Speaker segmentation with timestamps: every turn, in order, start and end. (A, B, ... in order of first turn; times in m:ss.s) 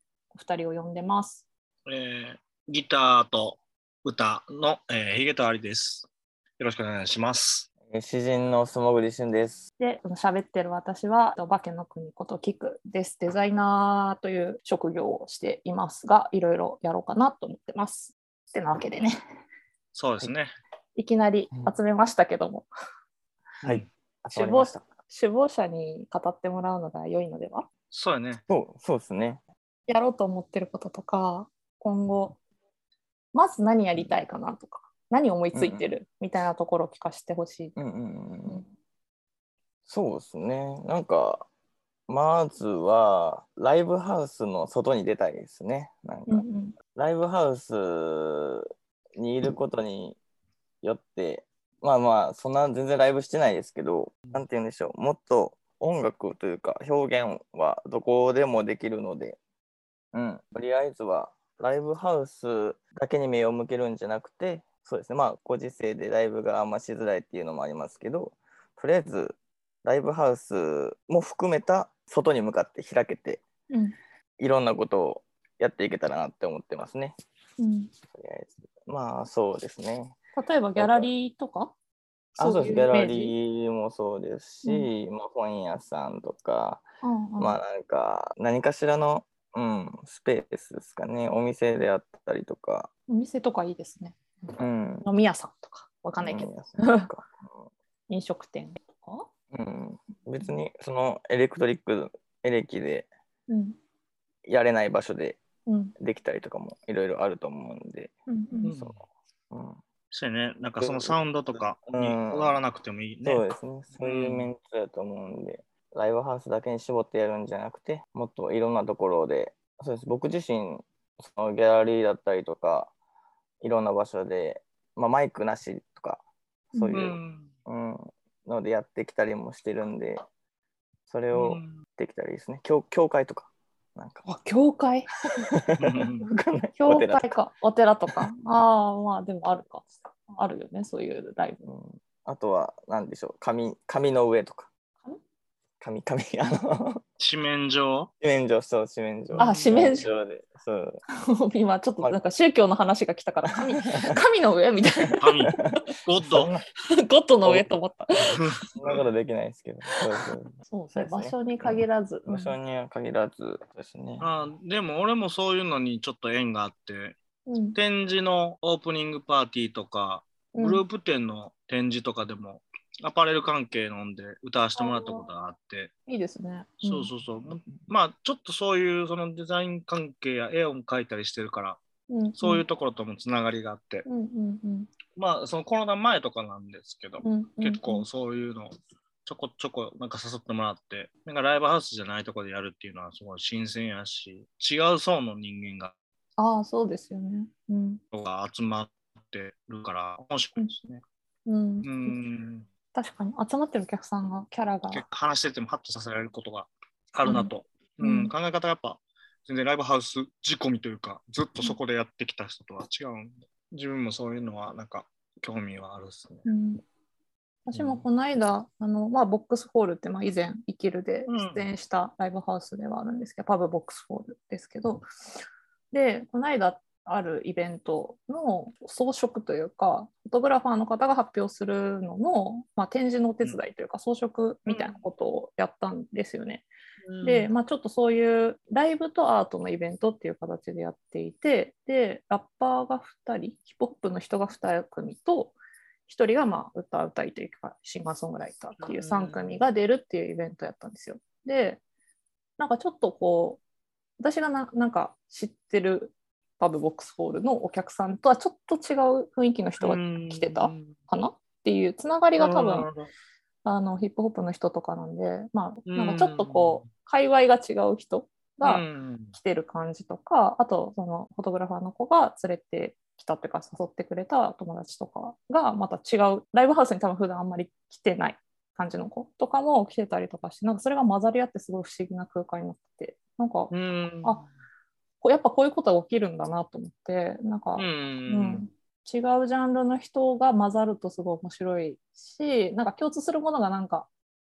0:00.3-0:01.4 A
0:01.8-0:07.7 B
0:07.9-0:09.6 C
0:09.8-0:19.2 A
0:19.9-0:20.5 B
0:21.0-0:22.7 A
0:23.6-0:24.8 C
0:24.3-0:27.7 A
0:27.9-0:28.4 B
0:28.5-0:29.4 C
0:29.9-0:32.4 A
0:33.3-0:37.8 A
0:35.5-0:35.9 C
0:37.8-0:38.6 C
0:39.9-0:41.5 C
0:42.1-0:50.2 C
0:46.3-0:46.7 A
0:50.8-0:59.4 C
1:00.1-1:13.4 C
1:13.7-1:13.9 A
1:14.4-1:17.2 C
1:17.6-1:17.9 A
1:18.1-1:20.2 C
1:20.4-1:21.7 A
1:20.8-1:21.1 C
1:22.4-1:26.8 C
1:22.4-1:23.3 A
1:24.6-1:24.9 A
1:27.0-1:27.6 A
1:27.4-1:32.9 C
1:33.1-1:37.1 A
1:34.6-1:35.0 C
1:36.2-1:37.7 C
1:38.1-1:39.3 A
1:39.5-1:43.1 C
1:43.5-1:43.8 A
1:44.4-1:45.4 C
1:45.6-1:45.9 A
1:46.0-1:48.1 C
1:48.3-1:48.7 A
1:48.6-1:49.0 B
1:49.5-1:49.8 C
1:50.1-1:53.4 B
1:50.8-1:52.6 C
1:53.2-2:02.9 C
1:54.0-1:54.5 B
2:03.6-2:06.2 C
2:06.7-2:10.2 C
2:06.7-2:07.0 A
2:06.9-2:07.5 B
2:11.1-2:14.2 C
2:11.3-2:11.8 B
2:14.2-2:15.5 A
2:15.4-2:17.4 C
2:15.8-2:16.2 B
2:16.8-2:21.7 A
2:21.6-2:24.7 C
2:25.8-2:27.0 C
2:27.2-2:28.1 B
2:28.2-2:31.0 C
2:29.3-2:29.7 B
2:29.4-2:30.1 A
2:31.2-2:35.2 A
2:33.8-2:34.2 C
2:35.0-2:36.6 C
2:35.2-2:36.5 B
2:36.9-2:38.4 A
2:38.7-2:44.3 C
2:40.7-2:42.6 A
2:44.2-2:47.2 B
2:47.5-2:47.8 A
2:47.7-2:55.9 B
2:50.5-2:50.8 A
2:54.8-2:55.2 A
2:56.1-2:57.1 A
2:56.8-3:01.8 B
3:02.1-3:02.6 A
3:02.4-3:04.0 B
3:04.0-3:04.9 A
3:05.1-3:08.7 B
3:07.2-3:08.1 A
3:09.2-3:15.9 B
3:16.4-3:18.0 A
3:18.1-3:21.0 B
3:21.4-3:22.2 A
3:21.8-3:22.7 B
3:22.9-3:25.0 A
3:24.9-3:36.4 B
3:27.2-3:28.3 A
3:36.4-3:36.8 A
3:37.6-3:45.0 A
3:37.7-3:38.0 B
3:41.3-3:41.7 B
3:45.9-3:56.7 A
3:54.7-3:55.0 B
3:57.0-3:57.5 B
3:57.2-4:05.6 A
4:06.1-4:11.8 A
4:08.8-4:09.6 B
4:12.6-4:13.6 A
4:14.2-4:22.9 A
4:19.8-4:20.9 B
4:22.4-4:23.1 B
4:23.6-4:43.7 A
4:25.8-4:26.8 B
4:28.6-4:29.4 B
4:43.7-4:44.4 B
4:45.2-4:54.1 A
4:47.8-4:48.6 B